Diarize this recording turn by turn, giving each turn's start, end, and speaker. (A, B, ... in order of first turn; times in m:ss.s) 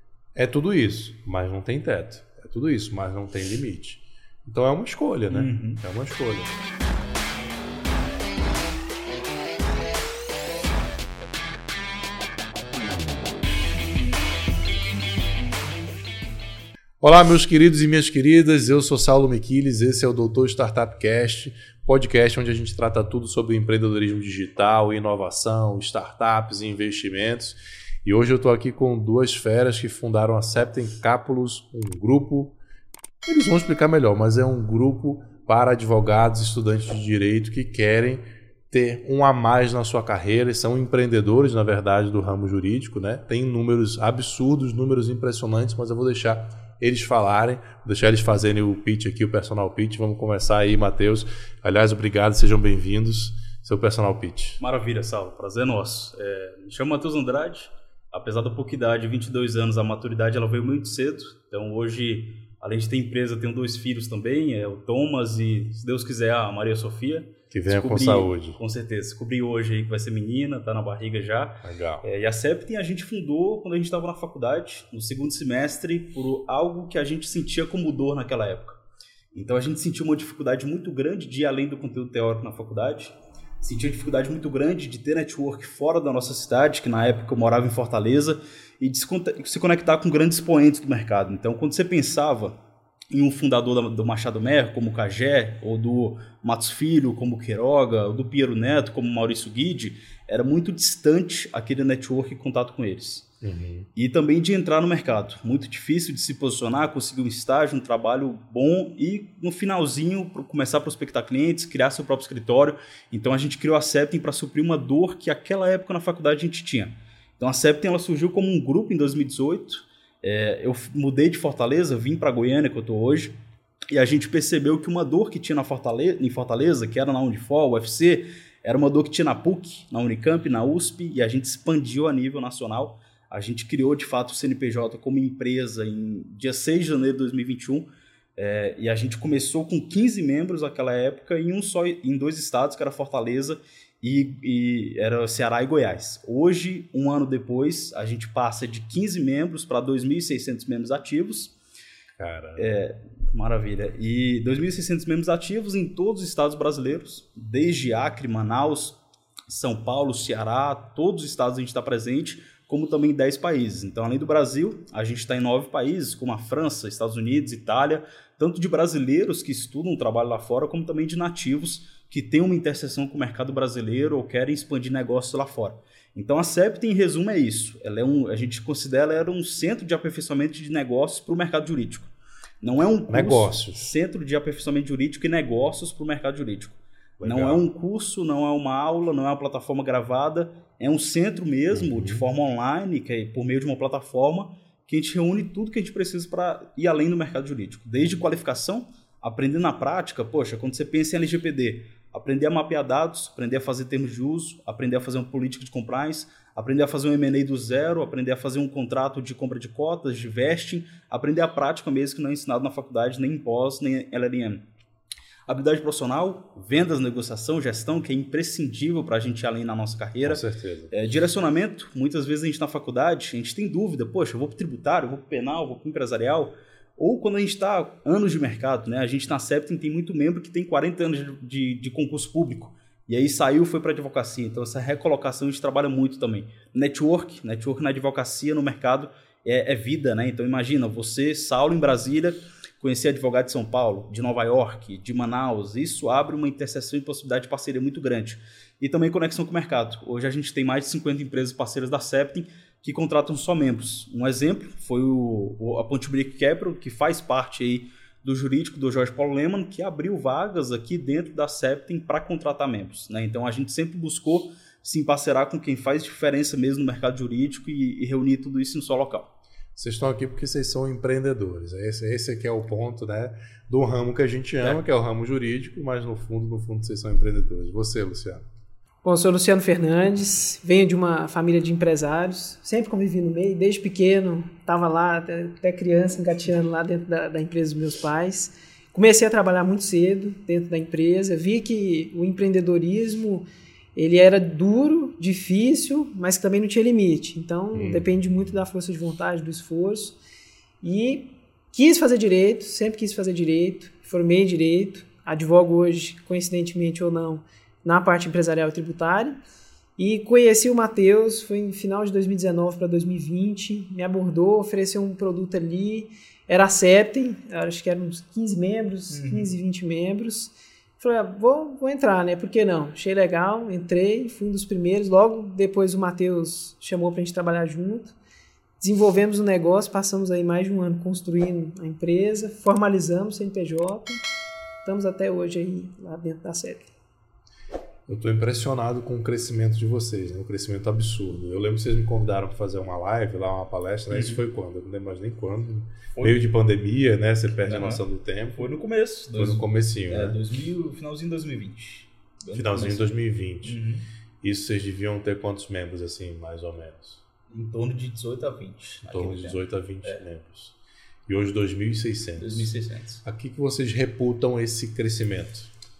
0:00.4-0:06.6 A
0:05.3-0:05.8 B
0:17.0-0:32.6 A
0:33.2-0:54.6 A
0:54.6-1:18.8 B
1:07.5-1:08.6 A
1:11.6-1:12.1 A
1:19.3-1:32.6 B
1:33.1-1:43.3 B
1:43.4-1:43.9 A
1:44.0-2:03.3 B
2:03.9-2:31.5 B
2:32.2-2:32.7 A
2:32.6-3:34.6 B
3:03.1-3:03.9 A
3:07.2-3:07.6 A
3:11.7-3:12.2 A
3:35.5-4:29.3 B
3:40.2-3:40.9 A
4:29.8-4:38.5 A
4:39.0-5:00.2 C
4:57.7-4:58.1 A
5:00.8-5:09.4 C
5:10.0-5:28.2 C
5:19.1-5:19.5 B
5:28.8-5:34.2 C
5:34.8-5:36.9 C
5:38.1-5:48.7 A
5:44.1-5:44.4 B
5:47.6-5:48.0 B
5:48.6-5:53.1 B
5:49.4-5:50.4 A
5:52.5-5:53.8 A
5:53.6-5:54.0 B
5:54.4-5:57.2 A
5:57.5-6:00.2 B
5:59.0-6:00.8 A
6:01.3-6:02.7 A
6:02.4-6:03.2 B
6:03.2-6:05.7 A